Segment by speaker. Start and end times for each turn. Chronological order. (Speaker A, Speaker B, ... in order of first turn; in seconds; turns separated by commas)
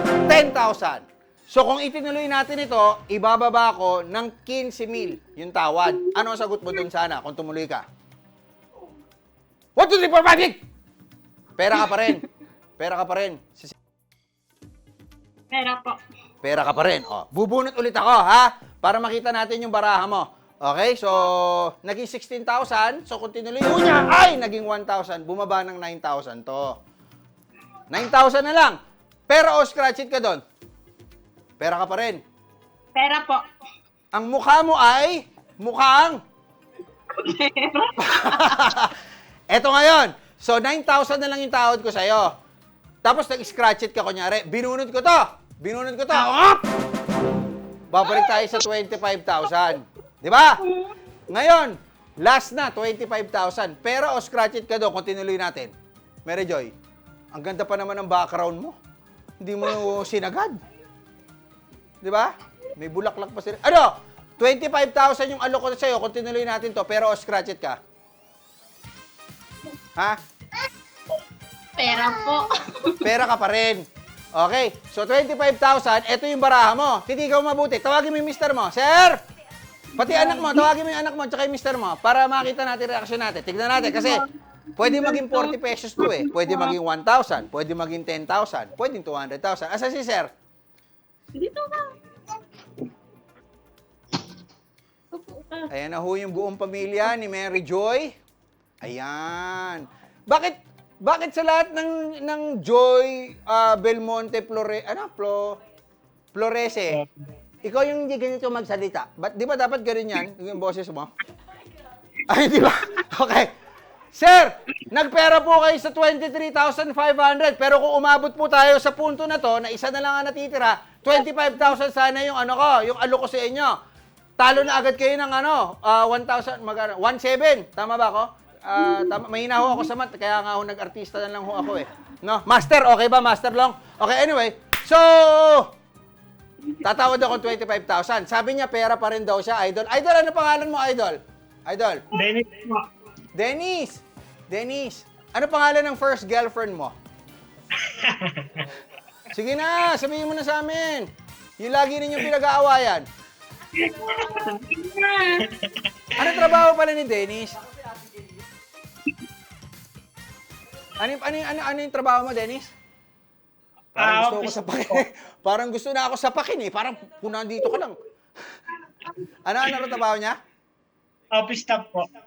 Speaker A: 0.3-7.8, Speaker B: 5.9-6.2, Speaker A: 9.8-10.6, Speaker A: 11.6-12.2, Speaker A: 12.8-13.7, Speaker B: 15.5-16.0, Speaker A: 16.4-26.8, Speaker A: 27.9-28.8, Speaker A: 29.3-30.4, Speaker A: 31.6-32.2, Speaker B: 32.9-33.4, Speaker A: 34.1-36.2, Speaker B: 37.2-38.6, Speaker A: 38.1-38.9, Speaker A: 39.5-42.3, Speaker A: 43.0-46.6, Speaker A: 47.9-50.6, Speaker B: 48.0-48.6, Speaker B: 50.6-50.9, Speaker A: 51.3-55.7, Speaker A: 56.2-56.7, Speaker A: 57.3-58.8, Speaker A: 59.4-60.6, Speaker A: 62.0-67.8, Speaker B: 71.8-73.0, Speaker A: 73.0-79.2, Speaker A: 80.0-84.2, Speaker B: 80.0-80.7, Speaker B: 83.7-86.7, Speaker A: 84.8-90.3, Speaker B: 91.3-91.9, Speaker B: 95.1-95.7, Speaker A: 95.7-98.1, Speaker A: 98.8-105.6, Speaker A: 106.3-107.0, Speaker A: 107.6-111.1, Speaker A: 112.3-113.5, Speaker A: 114.1-123.8, Speaker A: 124.4-135.7, Speaker A: 136.8-142.0, Speaker C: 142.1-142.7, Speaker A: 143.3-146.9, Speaker C: 147.9-148.3, Speaker A: 149.3-151.1, Speaker A: 151.6-153.0, Speaker B: 153.8-155.5, Speaker A: 156.2-157.6, Speaker A: 161.0-162.7, Speaker A: 163.9-168.0, Speaker C: 164.0-165.0, Speaker A: 169.4-170.4, Speaker C: 171.3-172.1